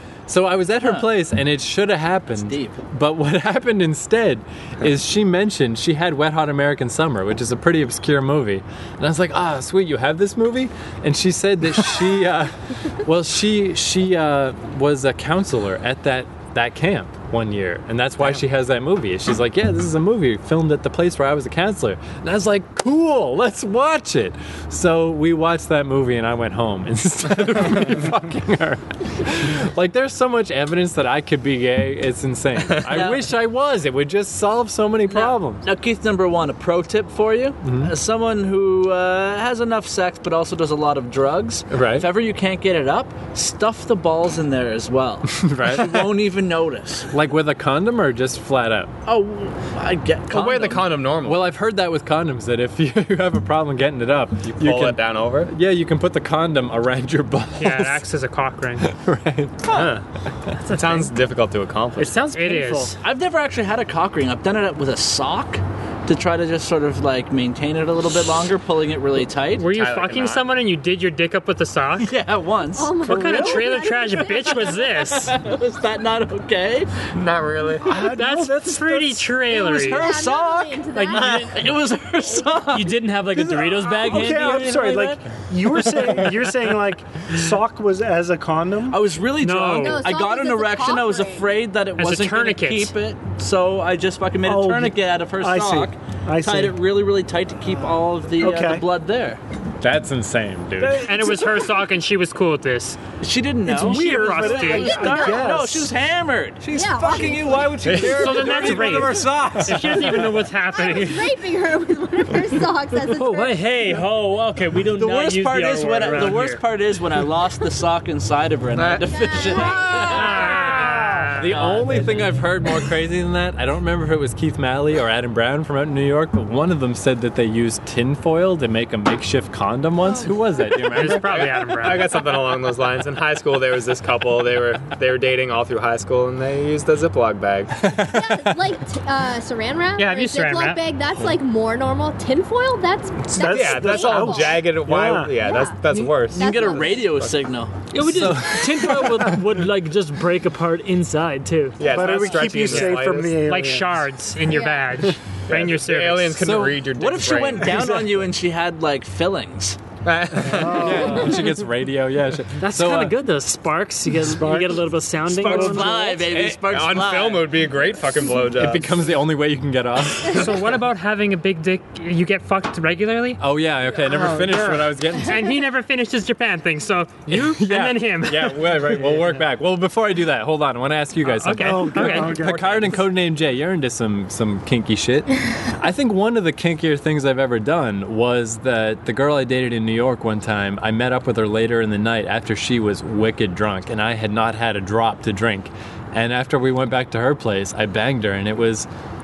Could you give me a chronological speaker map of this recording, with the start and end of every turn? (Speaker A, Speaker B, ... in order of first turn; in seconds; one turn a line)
Speaker A: 0.3-35.6
Speaker B: 0.8-1.1
Speaker B: 2.3-2.8
Speaker B: 32.9-33.3
Speaker B: 35.1-47.1
Speaker A: 37.6-37.9
Speaker A: 41.7-42.1
Speaker A: 45.3-46.2
Speaker A: 47.1-48.9
Speaker B: 49.1-51.1
Speaker C: 50.3-51.4
Speaker A: 51.2-58.0
Speaker C: 54.5-55.5
Speaker D: 57.6-58.9
Speaker A: 58.8-59.7
Speaker B: 59.6-59.9
Speaker C: 59.7-60.0
Speaker C: 60.7-62.2
Speaker E: 62.0-62.9
Speaker D: 62.0-63.0
Speaker B: 63.0-69.7
Speaker D: 69.6-72.1
Speaker C: 69.7-70.5
Speaker B: 72.0-73.5
Speaker F: 72.8-74.6
Speaker D: 73.0-75.4
Speaker G: 73.1-73.7
Speaker B: 74.2-76.9
Speaker C: 77.2-78.1
Speaker G: 77.9-79.3
Speaker D: 77.9-80.1
Speaker A: 78.1-78.5
Speaker B: 79.5-83.9
Speaker F: 79.9-81.5
Speaker E: 81.0-81.7
Speaker E: 82.7-85.2
Speaker G: 84.0-89.0
Speaker B: 88.9-99.4
Speaker D: 89.4-90.1
Speaker F: 89.8-91.5
Speaker D: 92.0-92.9
Speaker G: 94.4-96.8
Speaker G: 98.4-98.8
Speaker A: 99.8-101.4
Speaker G: 100.8-101.8
Speaker D: 101.0-103.0
Speaker B: 103.2-107.7
Speaker G: 103.7-105.9
Speaker D: 103.7-105.4
Speaker H: 106.6-110.4
Speaker F: 106.7-107.7
Speaker C: 107.8-108.7
Speaker D: 108.1-111.3
Speaker B: 108.6-110.2
Speaker F: 110.7-113.7
Speaker E: 112.9-116.6
Speaker B: 114.8-122.5
Speaker C: 118.7-119.1
Speaker F: 119.1-120.1
Speaker D: 120.0-121.6
Speaker E: 120.8-121.1
Speaker A: 121.4-131.4
Speaker D: 130.8-132.1
Speaker C: 131.1-137.7
Speaker A: 137.7-138.8
Speaker F: 138.1-144.5
Speaker D: 140.0-140.8
Speaker G: 143.2-145.4
Speaker C: 143.4-147.4
Speaker F: 145.5-145.7
Speaker B: 145.9-148.6
Speaker F: 146.4-147.1
Speaker E: 147.9-151.8
Speaker C: 151.8-153.4
Speaker G: 151.8-154.0
Speaker D: 152.2-156.5
Speaker F: 154.5-154.9
Speaker C: 155.5-158.0
Speaker A: 156.4-156.8
Speaker B: 156.5-159.8
Speaker C: 160.0-161.3
Speaker G: 160.4-161.4
Speaker A: 160.8-163.2
Speaker E: 162.6-166.2
Speaker G: 164.2-166.1
Speaker B: 165.3-167.7
Speaker C: 166.3-169.1
Speaker A: 168.6-170.5
Speaker D: 170.3-173.4
Speaker A: 173.4-175.4
Speaker G: 174.4-174.7
Speaker D: 175.3-179.0
Speaker A: 177.3-198.9
Speaker D: 181.4-182.4
Speaker G: 181.5-183.0